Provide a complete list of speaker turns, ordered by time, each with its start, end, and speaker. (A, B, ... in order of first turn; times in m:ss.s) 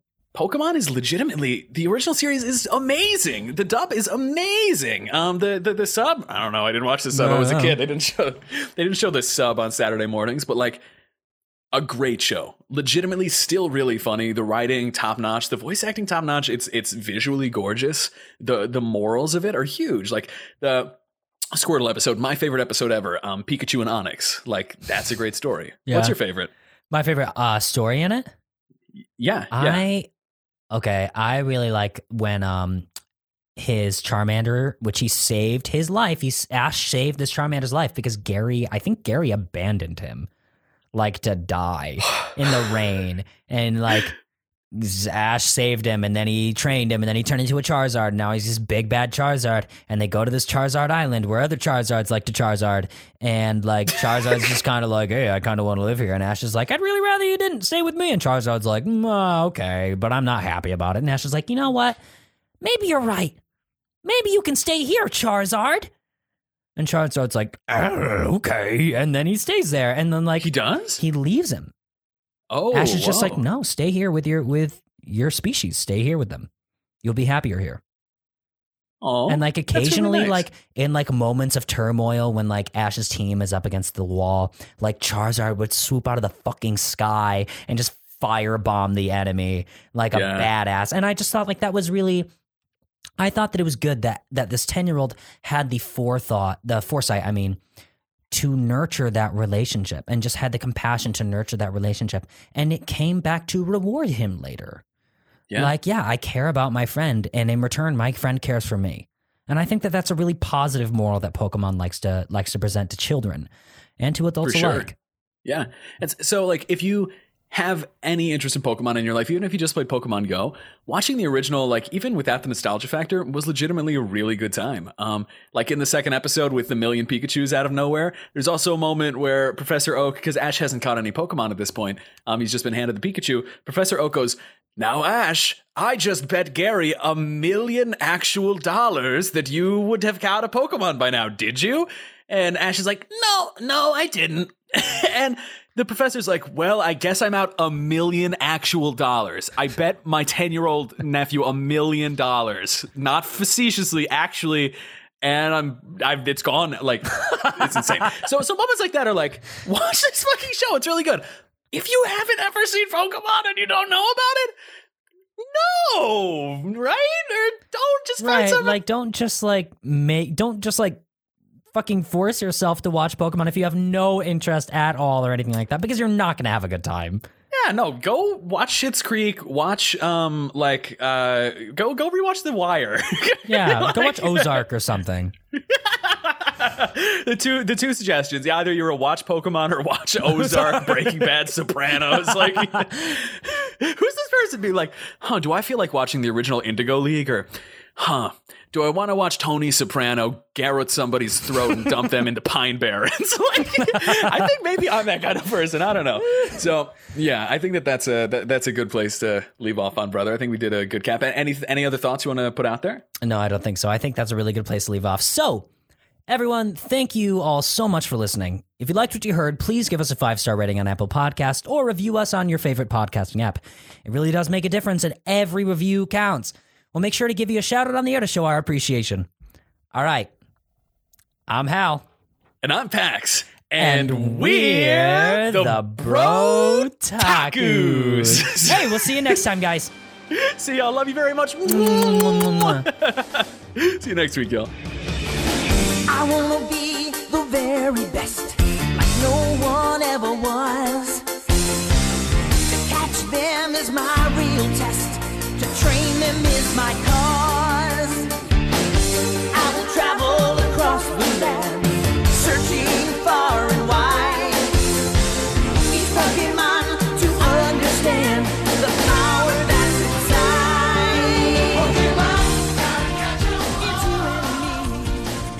0:00.3-0:10.8 A
0:07.1-0:07.8 B
0:11.7-0:21.0 A
0:21.5-0:26.5 A
0:25.9-0:26.2 B
0:26.9-0:28.3 B
0:29.2-0:29.8 A
0:29.5-0:30.1 B
0:30.7-0:32.9 B
0:33.6-0:40.3 B
0:40.9-0:44.1 B
0:44.7-1:02.0 B
1:02.6-1:03.4 B
1:04.0-1:05.9 B
1:06.8-1:11.7 B
1:10.4-1:11.0 A
1:12.5-1:13.4 A
1:12.7-1:16.5 B
1:17.0-1:17.8 B
1:19.0-1:20.4 A
1:19.3-1:32.3 B
1:30.1-1:30.5 A
1:33.2-1:37.6 B
1:38.3-1:44.8 B
1:45.5-1:54.9 B
1:54.4-1:54.9 A
1:55.4-2:44.5 A
2:45.4-2:48.8 A
2:48.2-2:51.0 B
2:51.7-2:57.2 B
2:57.5-3:04.6 A
3:03.5-3:05.3 B
3:05.5-3:33.0 A
3:10.2-3:11.3 B
3:11.9-3:13.2 B
3:23.8-3:24.4 B
3:33.2-3:35.7 B
3:36.3-3:49.3 B
3:49.9-3:50.3 B
3:51.5-3:52.0 B
3:52.6-3:59.3 A
3:53.8-3:59.9 B
4:00.3-4:04.7 A
4:01.6-4:02.9 B
4:06.1-4:11.2 C
4:12.8-4:18.3 C
4:19.5-4:24.8 C
4:25.9-4:35.3 C